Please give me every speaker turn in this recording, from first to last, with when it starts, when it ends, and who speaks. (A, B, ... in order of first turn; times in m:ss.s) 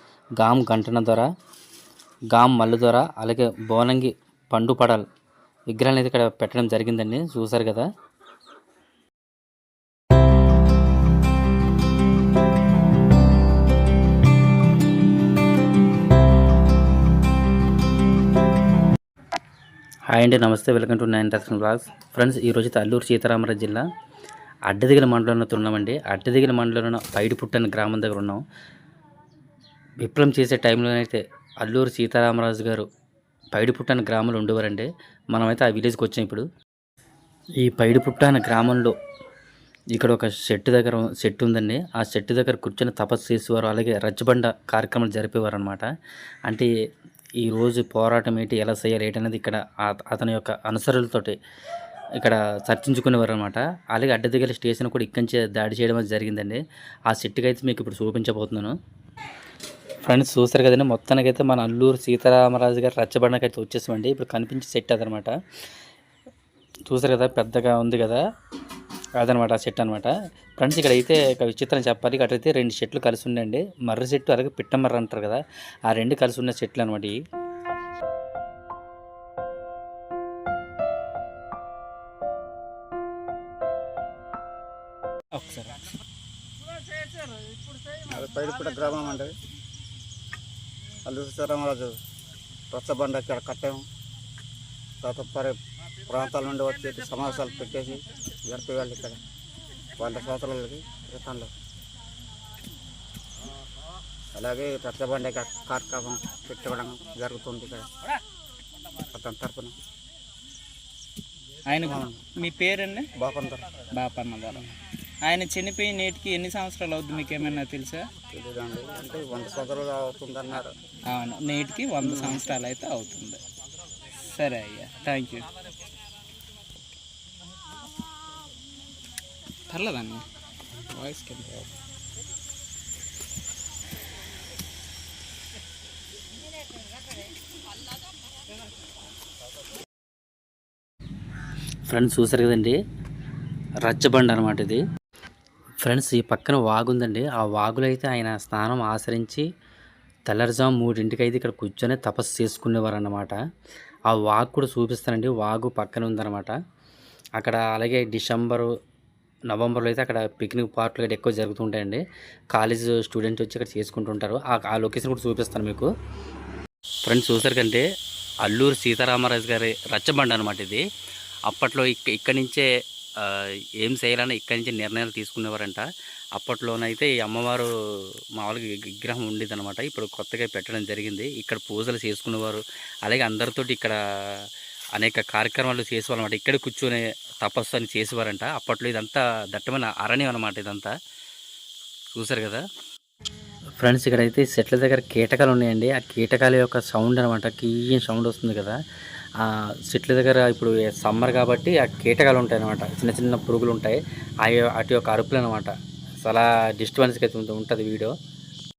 0:00.4-0:01.3 A
0:02.3-0:05.0 A
0:05.7-0:07.9 A
0:20.1-0:23.8 A
0:24.7-0:28.4 A
0:30.0-0:32.9 A
0:33.5-0:36.4 A
0:37.6-0:38.9 A
0:39.9-0:45.9 A
0:47.4-0:51.4 A
0:52.2-0:58.8 A
1:00.0-1:05.4 A
1:06.9-1:08.2 A
1:09.2-1:17.2 A
1:25.3-1:25.9 B
1:28.0-1:29.3 C
1:31.0-1:32.0 C
1:32.7-1:33.8 C
1:35.0-1:39.2 C
1:40.0-1:41.5 C
1:44.3-1:47.9 C
1:49.1-1:49.7 C
1:51.6-1:53.1 B
1:51.9-1:52.2 C
1:53.1-1:53.6 C
1:53.9-1:58.1 B
1:58.3-2:00.8 C
2:00.9-2:03.4 B
2:04.2-2:05.5 B
2:09.7-2:11.7 B
2:21.9-2:22.8 A
2:23.8-2:24.8 A
2:25.8-2:29.5 A
2:30.3-2:33.4 A
2:34.1-2:36.6 A
2:37.4-2:38.7 A
2:39.5-2:42.0 A
2:42.5-2:45.9 A
2:47.0-2:47.8 A
2:48.4-2:50.8 A
2:51.5-2:52.7 A
2:53.2-2:57.7 A
2:58.4-3:10.9 A
3:12.1-3:12.6 A
3:13.8-3:18.8 A
3:19.4-3:28.1 A